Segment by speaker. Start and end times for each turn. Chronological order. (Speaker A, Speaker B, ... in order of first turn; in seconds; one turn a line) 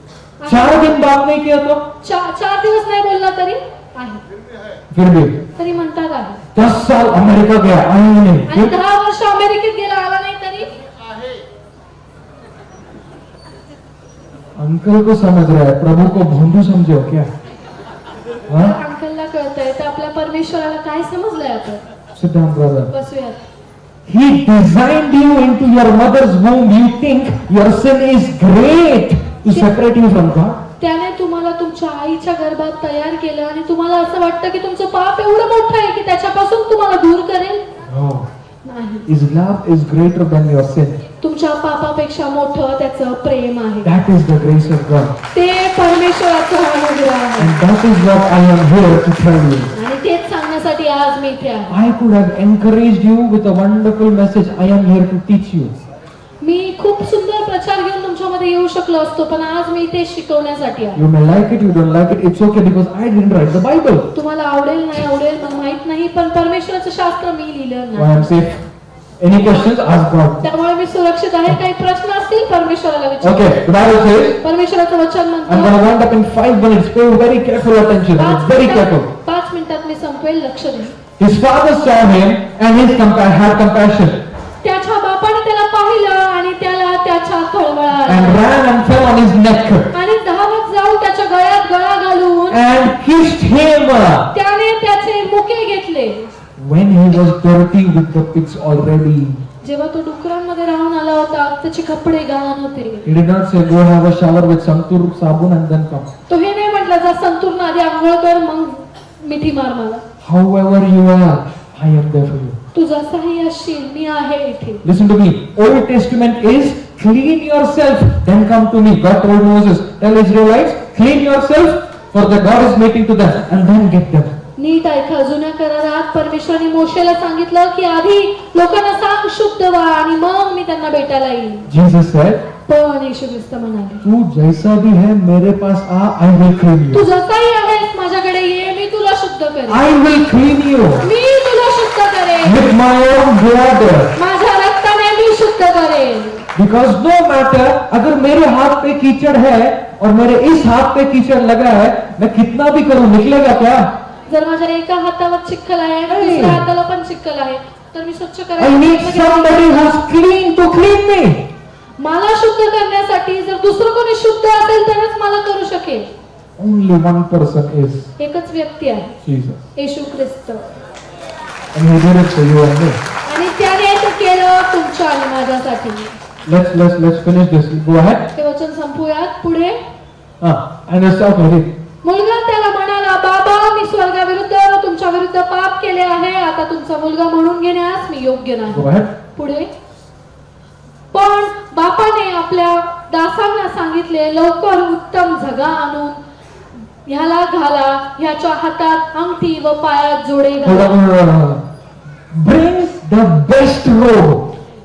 Speaker A: 0.4-1.0
Speaker B: 0.5-1.9
Speaker A: 2.0-4.2
Speaker B: 4.9-5.4
Speaker A: 5.6-6.4
Speaker B: 6.5-8.7
Speaker A: 8.5-10.8
Speaker B: 14.6-17.3
Speaker B: 18.5-18.8
Speaker A: 18.5-21.9
Speaker B: 22.1-22.9
Speaker A: 22.9-23.4
Speaker B: 24.1-30.6
Speaker A: 30.8-37.6
Speaker B: 37.9-38.3
Speaker A: 38.6-39.1
Speaker B: 39.1-41.0
Speaker A: 41.2-43.9
Speaker B: 43.8-45.1
Speaker A: 45.3-47.5
Speaker B: 47.4-49.7
Speaker A: 49.7-51.8
Speaker B: 51.7-55.7
Speaker A: 56.4-61.0
Speaker B: 60.9-64.1
Speaker A: 64.1-68.3
Speaker B: 67.9-68.6
Speaker B: 69.2-70.5
Speaker A: 70.4-73.5
Speaker B: 73.2-74.4
Speaker A: 74.4-75.8
Speaker B: 75.5-79.1
Speaker A: 78.2-81.0
Speaker B: 81.2-84.2
Speaker A: 84.6-88.5
Speaker B: 88.0-89.9
Speaker A: 89.9-92.6
Speaker B: 92.5-94.3
Speaker A: 94.3-96.3
Speaker B: 96.6-99.4
Speaker A: 99.6-103.0
Speaker B: 103.0-106.1
Speaker A: 106.3-110.0
Speaker B: 110.2-112.6
Speaker A: 112.7-114.8
Speaker B: 114.8-124.4
Speaker A: 124.6-131.7
Speaker B: 131.7-132.4
Speaker A: 132.6-134.0
Speaker B: 134.0-137.0
Speaker A: 136.9-139.9
Speaker B: 139.7-141.1
Speaker A: 141.0-142.6
Speaker B: 142.4-144.1
Speaker A: 144.2-146.4
Speaker B: 146.5-153.9
Speaker A: 154.3-159.9
Speaker B: 156.1-156.6
Speaker B: 158.6-161.4
Speaker A: 162.0-166.1
Speaker B: 166.6-168.1
Speaker A: 168.2-169.2
Speaker B: 169.2-169.6
Speaker A: 169.7-170.7
Speaker B: 171.7-173.0
Speaker A: 173.2-176.2
Speaker B: 176.4-178.3
Speaker A: 178.3-179.8
Speaker B: 180.4-181.7
Speaker A: 182.0-189.7
Speaker B: 188.7-189.1
Speaker A: 191.1-196.2
Speaker A: 197.0-200.9
Speaker B: 200.6-201.6
Speaker B: 202.3-204.5